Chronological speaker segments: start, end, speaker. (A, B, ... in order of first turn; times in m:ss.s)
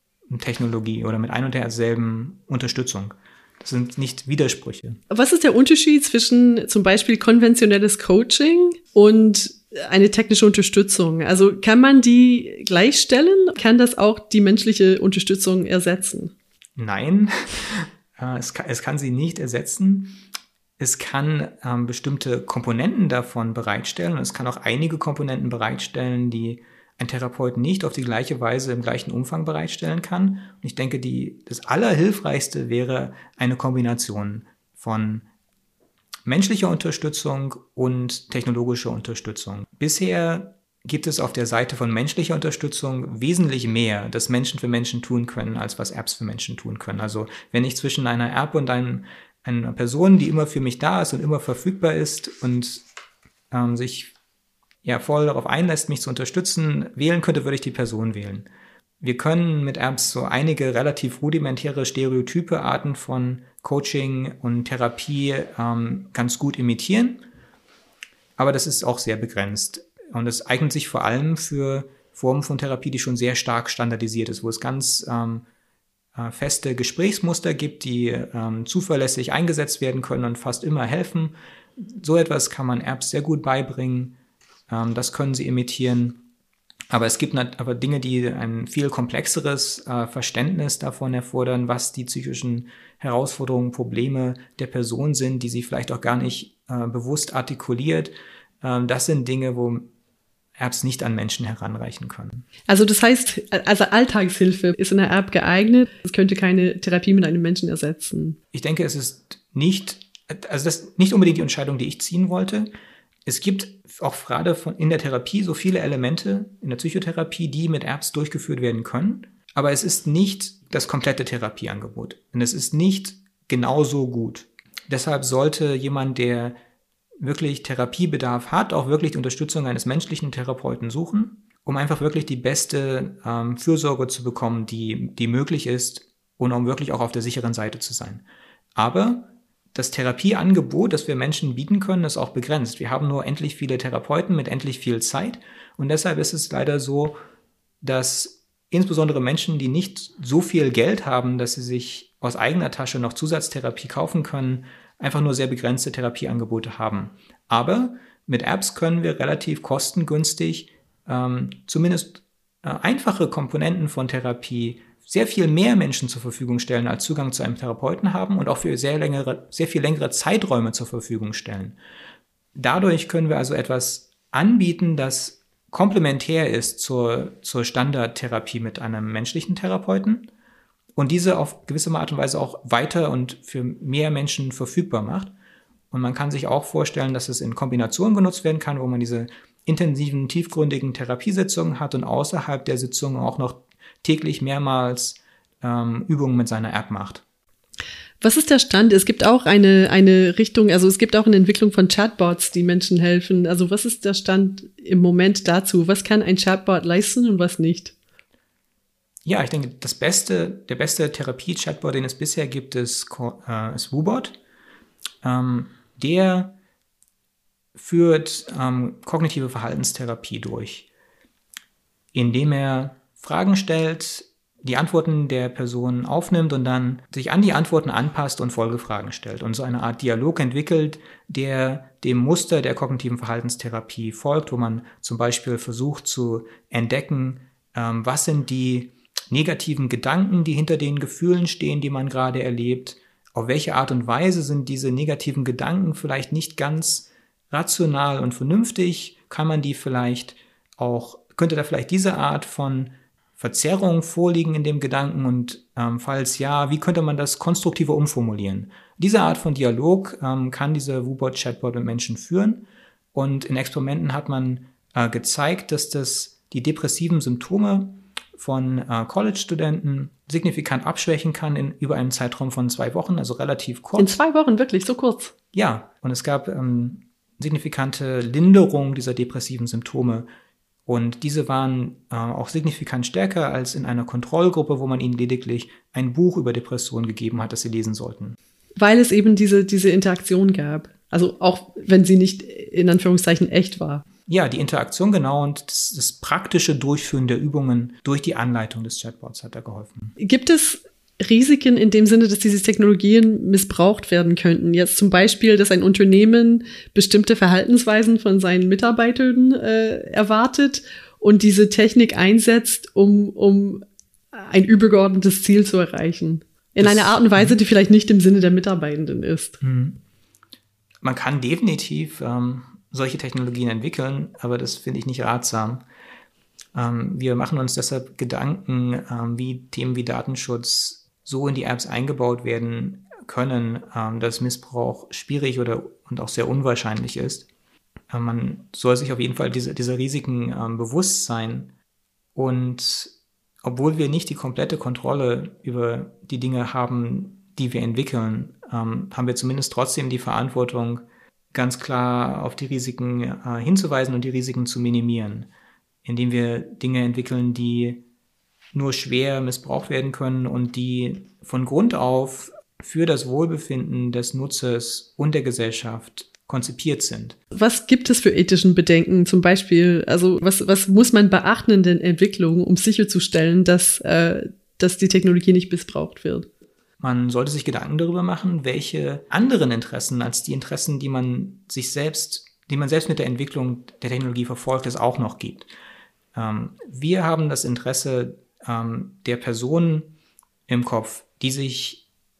0:00.3-0:05.0 A
0:05.1-0:16.3 B
0:16.8-0:20.2 A
0:20.8-0:35.2 A
0:36.3-0:52.8 A
0:53.5-0:54.1 A
0:54.8-0:58.5 A
0:59.0-1:07.2 A
1:08.4-1:15.4 A
1:16.2-1:24.2 A
1:24.7-1:26.2 A
1:26.9-1:39.9 A
1:40.6-1:42.4 A
1:42.7-1:48.4 B
1:48.5-1:52.7 A
1:53.2-2:06.6 A
2:07.2-2:18.2 A
2:18.8-2:27.2 A
2:27.8-2:51.8 A
2:52.5-3:00.3 A
3:01.0-3:05.3 A
3:05.9-3:17.2 A
3:18.2-3:27.9 B
3:29.2-3:34.4 A
3:35.2-3:36.5 A
3:37.8-3:40.9 A
3:42.1-4:34.2 A
4:34.0-4:35.3 B
4:35.5-4:40.3 A
4:40.8-4:48.4 A
4:48.8-4:54.0 B
4:54.3-5:00.2 A
5:00.2-5:19.6 B
5:16.8-5:17.6 A
5:19.6-5:20.0 A
5:21.0-5:25.8 A
5:26.7-5:37.5 A
5:38.1-5:41.7 A
5:42.3-5:43.1 A
5:43.6-5:55.5 A
5:56.0-5:58.0 A
5:58.7-6:07.4 A
6:07.5-6:16.5 B
6:17.0-6:25.7 A
6:26.3-6:30.1 A
6:30.7-6:32.0 A